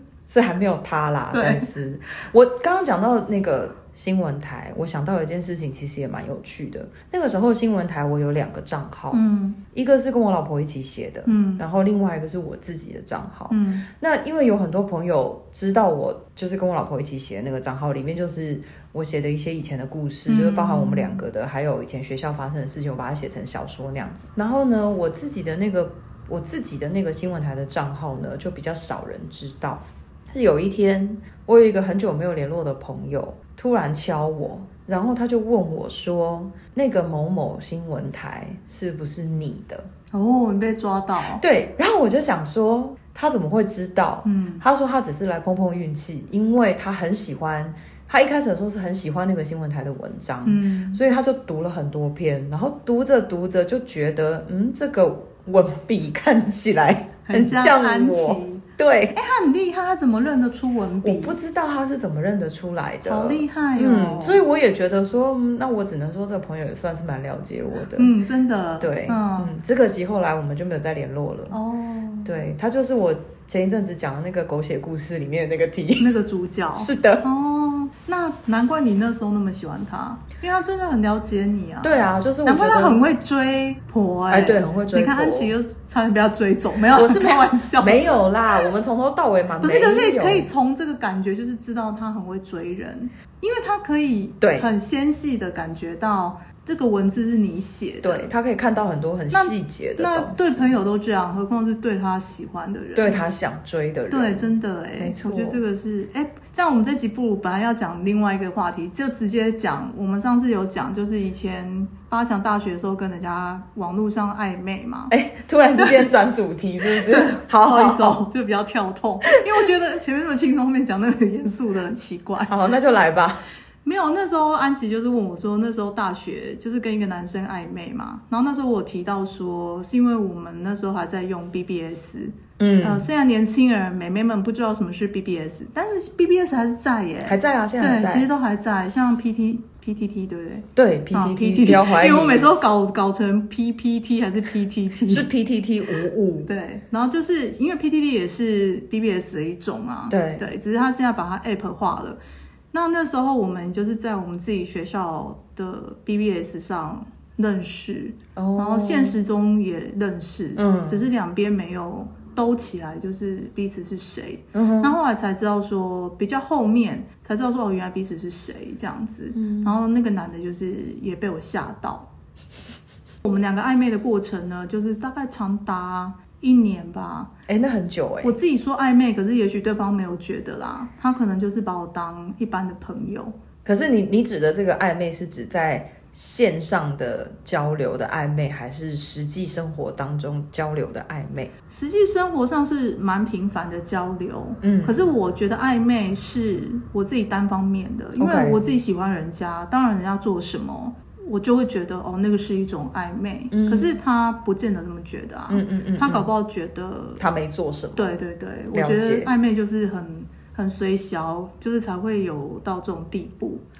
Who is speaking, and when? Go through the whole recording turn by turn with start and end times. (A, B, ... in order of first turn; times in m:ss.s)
0:00.3-0:09.2 A
0:01.3-0:01.7 B
0:09.1-0:09.6 B
0:09.7-0:39.9 A
0:11.2-0:11.6 B
0:13.5-0:13.8 B
0:20.3-0:21.2 B
0:40.1-0:41.4 B
0:41.2-0:59.2 A
0:44.2-0:44.6 B
0:50.4-0:51.0 B
0:57.3-1:01.4 B
1:01.0-1:08.1 A
1:03.0-1:04.4 B
1:08.0-1:09.5 B
1:08.8-1:11.6 A
1:11.5-1:12.3 B
1:12.2-1:16.1 A
1:16.0-1:28.1 B
1:16.8-1:17.2 A
1:21.8-1:23.0 A
1:24.3-1:25.5 A
1:26.9-1:30.5 A
1:29.6-1:38.3 B
1:34.4-1:34.7 A
1:38.0-1:40.8 A
1:39.3-1:43.2 B
1:42.9-1:45.6 A
1:44.1-1:55.1 B
1:55.1-1:58.2 A
1:55.8-1:56.1 B
1:56.9-2:02.6 B
2:02.5-2:03.4 A
2:03.8-2:25.2 B
2:12.6-2:13.1 A
2:17.2-2:18.3 A
2:20.7-2:22.5 A
2:25.1-2:26.5 A
2:26.4-2:32.2 B
2:30.1-2:30.4 A
2:32.7-2:52.1 B
2:38.4-2:39.2 A
2:40.6-2:41.1 A
2:44.5-2:44.9 A
2:49.3-2:49.8 A
2:53.2-2:57.3 B
2:57.5-2:58.4 A
2:58.2-3:03.3 B
3:03.6-3:11.5 A
3:11.7-3:27.2 B
3:14.6-3:15.0 A
3:18.2-3:18.6 A
3:23.5-3:24.0 A
3:25.5-3:26.3 A
3:27.2-3:28.2 A
3:28.0-3:33.6 B
3:28.7-3:29.3 A